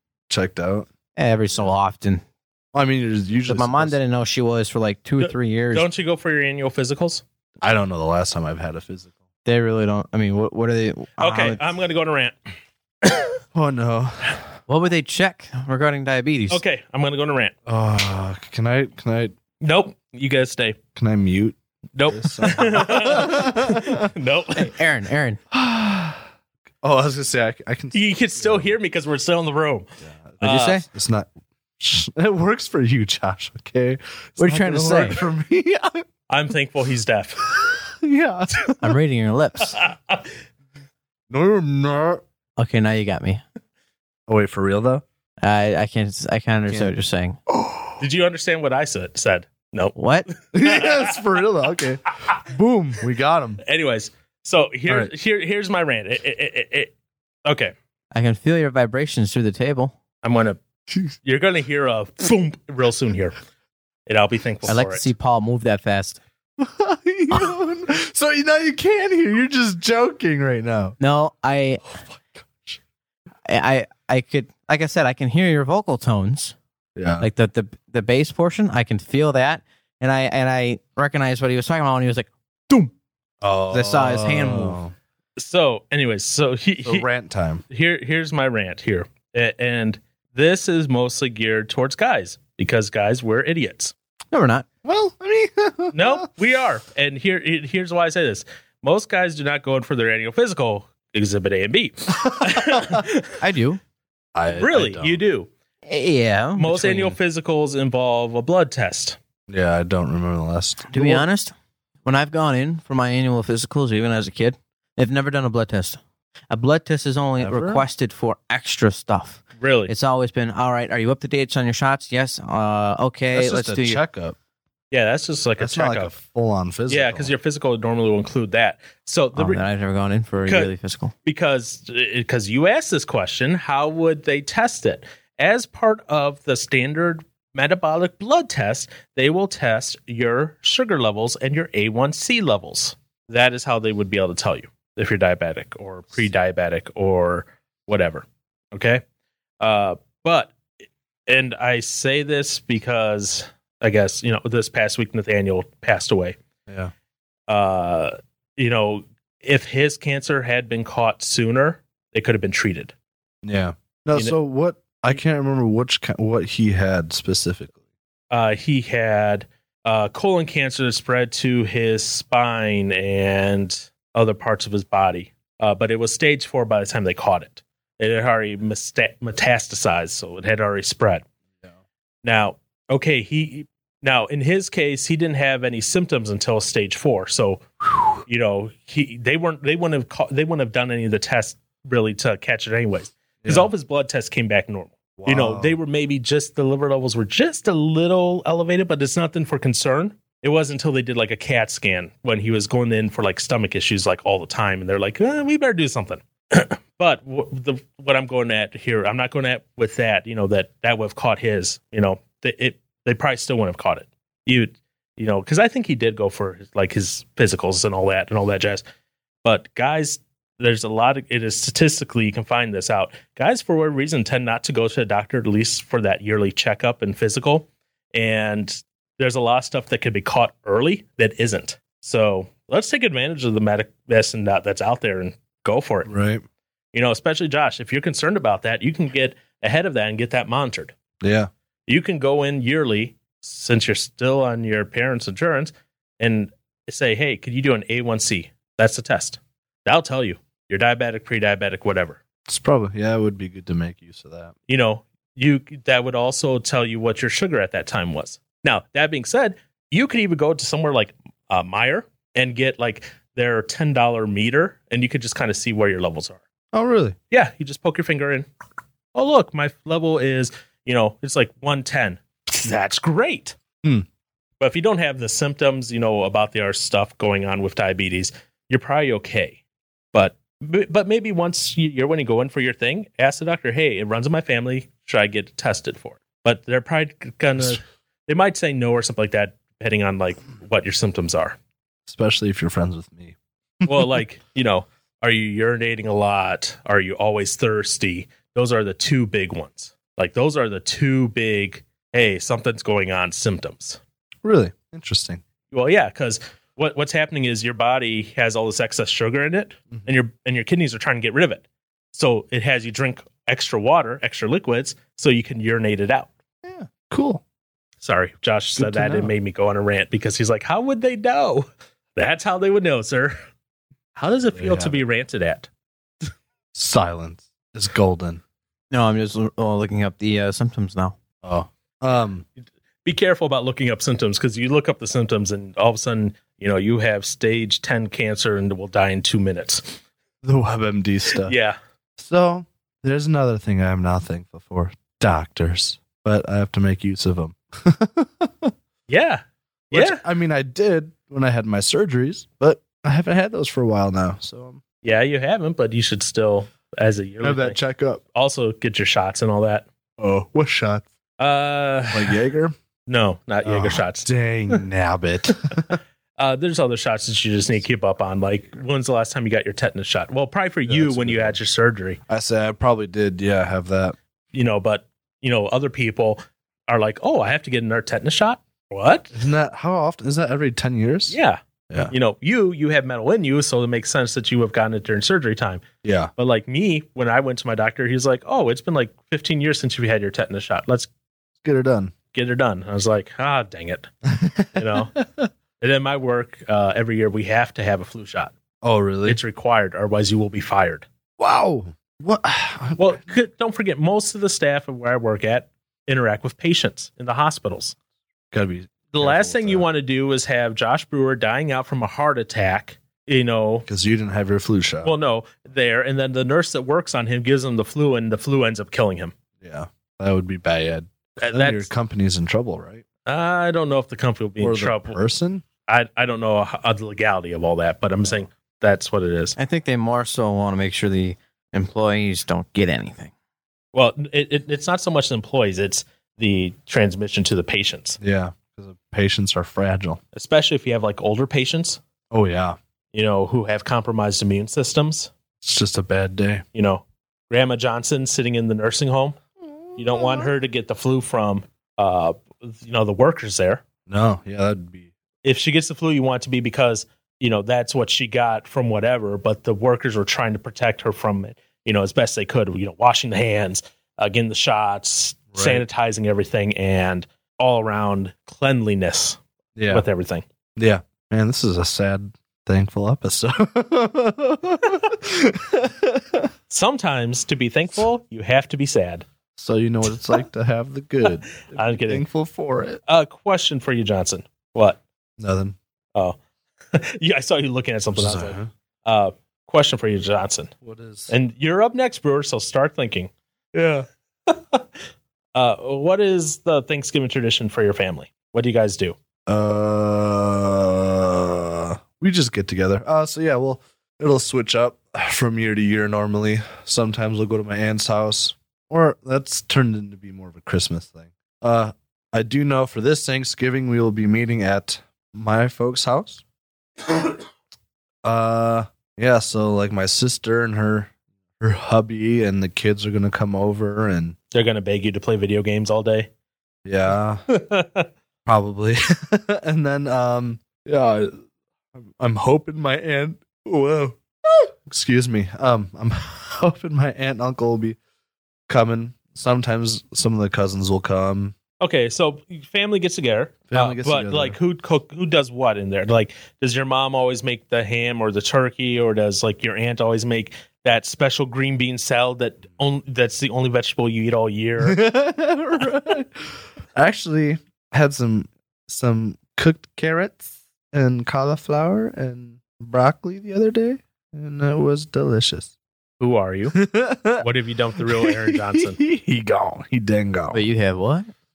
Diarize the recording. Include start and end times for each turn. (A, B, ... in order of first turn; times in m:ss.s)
0:00.3-0:00.9 A
0:01.2-0:02.2 B
0:02.7-0:04.0 A
0:03.5-0:05.9 B
0:05.2-0:07.2 C
0:07.6-0:09.1 A
0:09.4-0:11.6 B
0:11.2-0:12.4 C
0:13.0-0:13.4 C
0:13.5-0:14.4 A
0:14.7-0:16.6 B
0:16.5-0:17.5 C
0:17.7-0:19.4 A
0:19.6-0:20.8 C
0:21.0-0:24.1 A
0:22.0-0:24.7 C
0:24.6-0:25.4 B
0:25.5-0:26.2 A
0:26.8-0:28.7 A
0:27.9-0:29.9 C
0:30.0-0:36.0 A
0:30.4-0:30.8 C
0:30.4-0:30.8 B
0:34.4-0:35.2 B
0:36.3-0:37.4 C
0:37.5-0:39.0 A
0:38.8-0:39.8 B
0:39.7-0:40.3 C
0:41.3-0:42.2 A
0:42.6-0:43.4 B
0:44.3-0:45.0 A
0:45.4-0:47.4 B
0:47.5-0:48.0 A
0:48.0-0:50.0 C
0:50.0-0:50.3 B
0:50.5-0:53.6 A
0:50.6-0:51.2 C
0:53.6-0:56.9 C
0:57.4-0:57.7 C
0:58.1-1:00.0 B
1:00.2-1:00.6 C
1:01.2-1:03.4 C
1:04.1-1:05.1 C
1:04.7-1:06.2 B
1:06.6-1:11.0 A
1:11.0-1:11.8 B
1:12.4-1:12.8 A
1:13.5-1:16.6 B
1:17.0-1:17.3 A
1:17.2-1:22.9 B
1:23.4-1:24.9 A
1:23.7-1:24.8 B
1:25.4-1:27.1 C
1:26.8-1:27.6 A
1:27.7-1:33.9 C
1:34.3-1:34.7 B
1:34.8-1:36.3 A
1:35.9-1:43.3 C
1:42.2-1:43.0 A
1:43.4-1:43.8 B
1:44.4-1:45.2 A
1:44.5-1:45.5 C
1:45.9-1:47.2 B
1:46.6-1:49.2 C
1:49.5-1:51.2 A
1:50.9-1:51.5 B
1:52.0-1:56.0 B
1:56.5-2:04.0 B
1:57.4-1:57.8 A
1:59.6-1:59.9 C
2:03.3-2:04.4 A
2:04.9-2:06.1 C
2:05.6-2:07.3 A
2:06.9-2:09.6 C
2:09.4-2:11.1 B
2:10.5-2:10.7 C
2:11.2-2:29.0 C
2:29.6-2:30.6 C
2:31.3-2:36.4 C
2:36.7-2:36.9 A
2:37.5-2:42.9 C
2:43.4-2:47.8 A
2:48.3-3:01.2 C
3:02.2-3:07.6 C
3:08.2-3:38.8 C
3:13.4-3:13.7 A
3:15.2-3:15.8 A
3:39.4-3:56.1 C
3:56.1-3:56.4 A
3:56.9-4:00.9 C
4:01.2-4:01.5 A
4:01.9-4:12.2 C
4:12.5-4:14.5 A
4:14.7-4:26.4 C
4:26.7-4:27.2 A
4:27.3-4:28.5 C
4:29.1-4:33.6 C
4:34.6-4:39.6 C
4:40.1-4:51.6 C
4:52.1-4:54.2 A
4:53.9-5:04.0 C
5:04.4-5:05.4 A
5:05.7-5:16.3 C
5:16.6-5:17.4 A
5:18.0-5:23.4 C
5:18.8-5:19.3 A
5:24.2-5:25.7 C
5:24.6-5:25.0 A
5:26.7-5:28.4 A
5:28.9-5:31.2 B
5:31.4-5:32.5 A
5:33.0-5:40.0 C
5:40.4-5:41.5 A
5:41.3-5:41.8 C
5:42.2-5:48.7 A
5:49.1-5:50.2 C
5:49.9-5:54.8 A
5:55.0-5:57.8 C
5:57.4-5:58.2 A
5:58.4-5:59.9 C
6:00.2-6:01.1 A
6:01.4-6:02.4 C
6:02.1-6:02.7 A
6:03.1-6:04.8 C
6:03.6-6:06.0 A
6:06.4-6:12.2 C
6:10.9-6:11.6 A
6:12.3-6:14.2 A
6:14.5-6:19.4 C
6:19.3-6:21.4 A
6:21.3-6:25.8 C
6:26.0-6:26.3 A
6:26.4-6:31.1 C
6:31.6-6:32.1 A
6:32.3-6:34.1 C
6:34.3-6:35.5 A
6:34.8-6:35.2 C
6:35.8-6:38.5 C
6:38.8-6:39.4 A
6:39.3-6:41.1 C
6:41.4-6:43.2 A
6:43.0-6:48.0 C
6:48.5-6:49.9 A
6:49.1-6:53.9 C
6:53.9-6:55.1 A
6:55.0-6:59.3 C
6:59.6-7:03.0 A
7:01.4-7:01.9 C
7:03.3-7:05.2 C
7:04.6-7:05.6 A
7:05.9-7:09.6 C
7:09.6-7:13.3 B
7:13.9-7:18.2 C
7:18.2-7:20.2 A
7:20.3-7:22.0 C
7:22.3-7:22.8 A
7:23.1-7:25.3 C
7:25.6-7:26.6 A
7:26.8-7:29.4 C
7:29.6-7:30.5 A
7:30.0-7:33.8 C
7:34.1-7:35.1 A
7:35.4-7:49.4 C
7:45.5-7:45.8 A
7:49.8-7:50.0 A
7:49.9-7:50.4 C
7:50.8-7:56.5 A
7:56.7-7:59.3 C
7:59.6-8:03.0 A
8:01.2-8:02.2 C
8:03.1-8:05.0 C
8:05.4-8:05.8 A
8:06.9-8:10.7 C
8:08.1-8:08.7 A
8:10.8-8:11.3 A
8:11.3-8:13.3 C
8:13.7-8:14.1 A
8:14.5-8:14.8 C
8:15.6-8:19.2 C
8:19.5-8:36.4 A
8:38.2-8:44.4 A
8:44.5-8:46.3 C
8:46.8-8:47.4 A
8:47.5-8:48.1 C
8:48.5-8:51.4 A
8:52.0-8:58.0 A
8:58.7-9:01.6 A
9:01.8-9:15.0 C
9:03.7-9:04.6 A
9:14.8-9:25.7 A
9:26.2-9:26.8 C
9:26.7-9:27.5 A
9:27.4-9:29.0 C
9:28.1-9:30.6 A
9:30.5-9:31.3 B